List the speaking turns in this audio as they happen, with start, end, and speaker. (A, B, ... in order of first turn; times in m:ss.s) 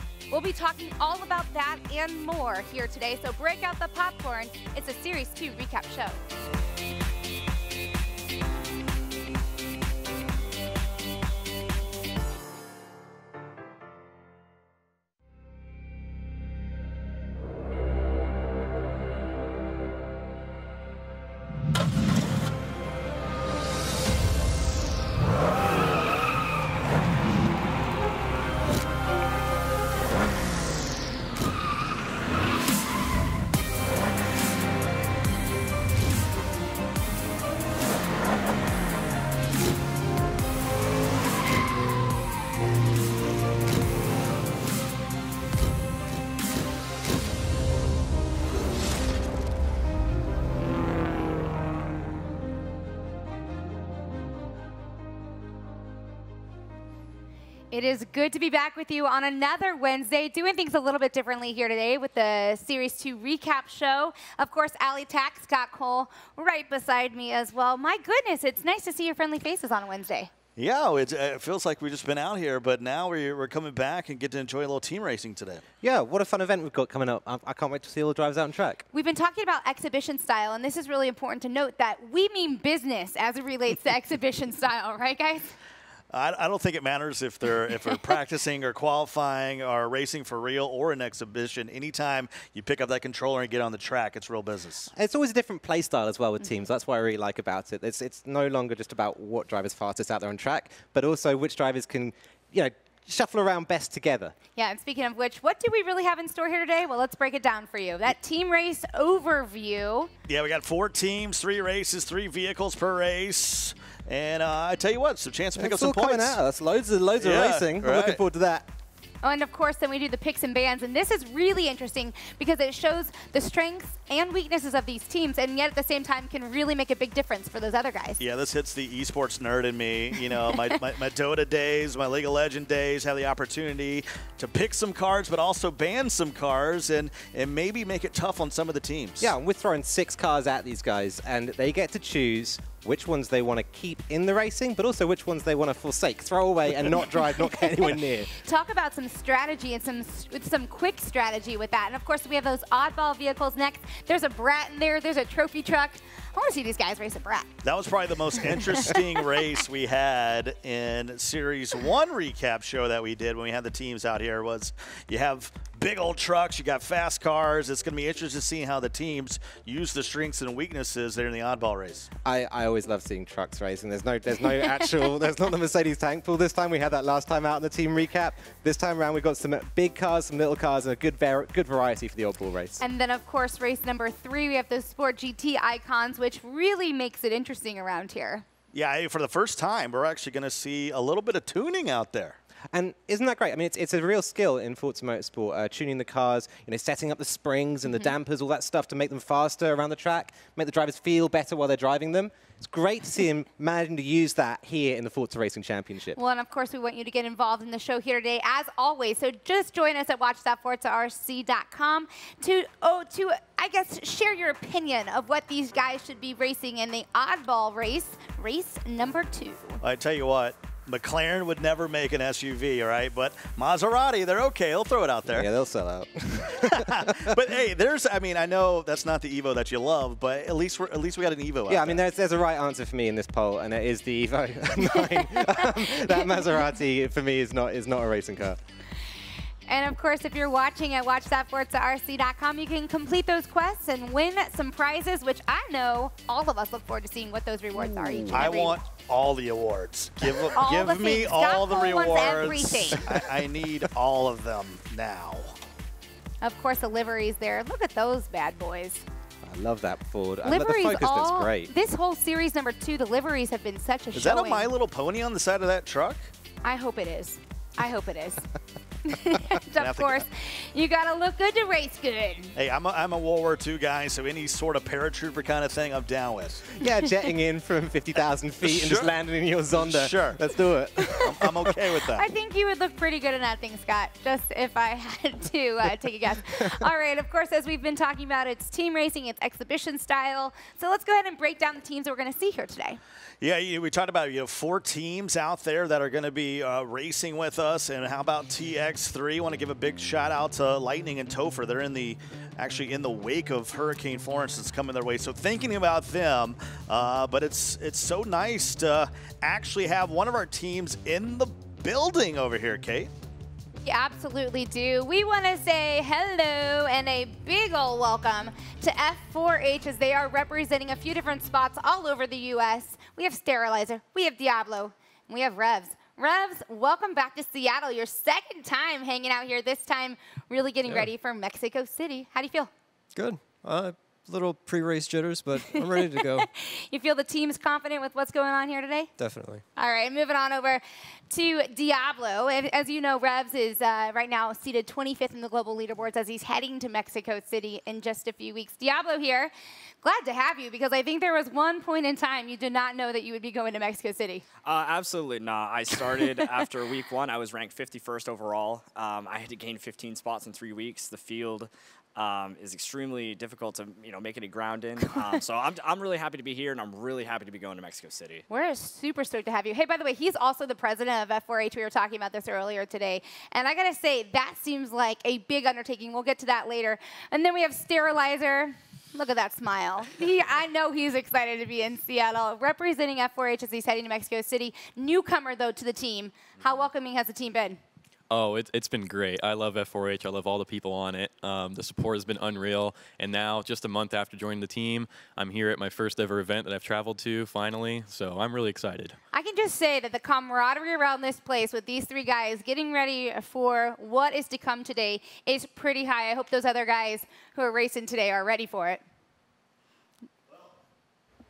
0:00.3-0:06.2 A
0:57.7-1:10.3 A
1:10.6-1:15.6 B
1:15.8-1:18.8 C
1:18.9-1:25.5 A
1:26.1-1:34.9 B
1:35.0-1:44.4 C
1:44.6-1:50.1 A
1:50.3-1:56.4 B
1:55.6-1:58.7 C
1:57.2-1:58.2 B
1:59.2-2:08.2 A
2:08.2-2:19.3 B
2:19.2-2:28.3 C
2:28.3-2:37.6 A
2:37.6-2:52.1 B
2:38.6-2:39.0 A
2:52.2-3:02.8 C
3:02.8-3:08.4 A
3:08.7-3:12.4 B
3:12.7-3:26.2 C
3:26.2-3:39.8 A
3:39.8-3:45.5 B
3:45.3-3:47.3 C
3:46.6-3:52.0 B
3:51.7-3:58.6 C
3:54.9-3:56.5 A
3:59.7-4:08.8 A
4:08.3-4:15.6 B
4:10.5-4:13.0 A
4:16.4-4:19.0 A
4:19.4-4:21.7 C
4:20.4-4:24.7 A
4:24.1-4:26.2 B
4:26.6-4:28.5 A
4:29.0-4:32.5 A
4:29.8-4:30.2 B
4:32.6-4:36.7 B
4:36.7-4:41.8 C
4:38.6-4:39.1 B
4:39.8-4:40.4 B
4:41.2-4:42.2 B
4:42.1-4:53.0 A
4:53.4-5:13.1 B
5:13.8-5:32.7 A
5:33.2-5:36.5 D
5:35.6-5:39.1 A
5:39.2-5:39.6 D
5:39.8-5:49.5 A
5:50.0-5:54.4 A
5:54.6-6:08.4 E
6:08.5-6:27.8 A
6:28.3-6:39.2 F
6:39.3-6:49.0 A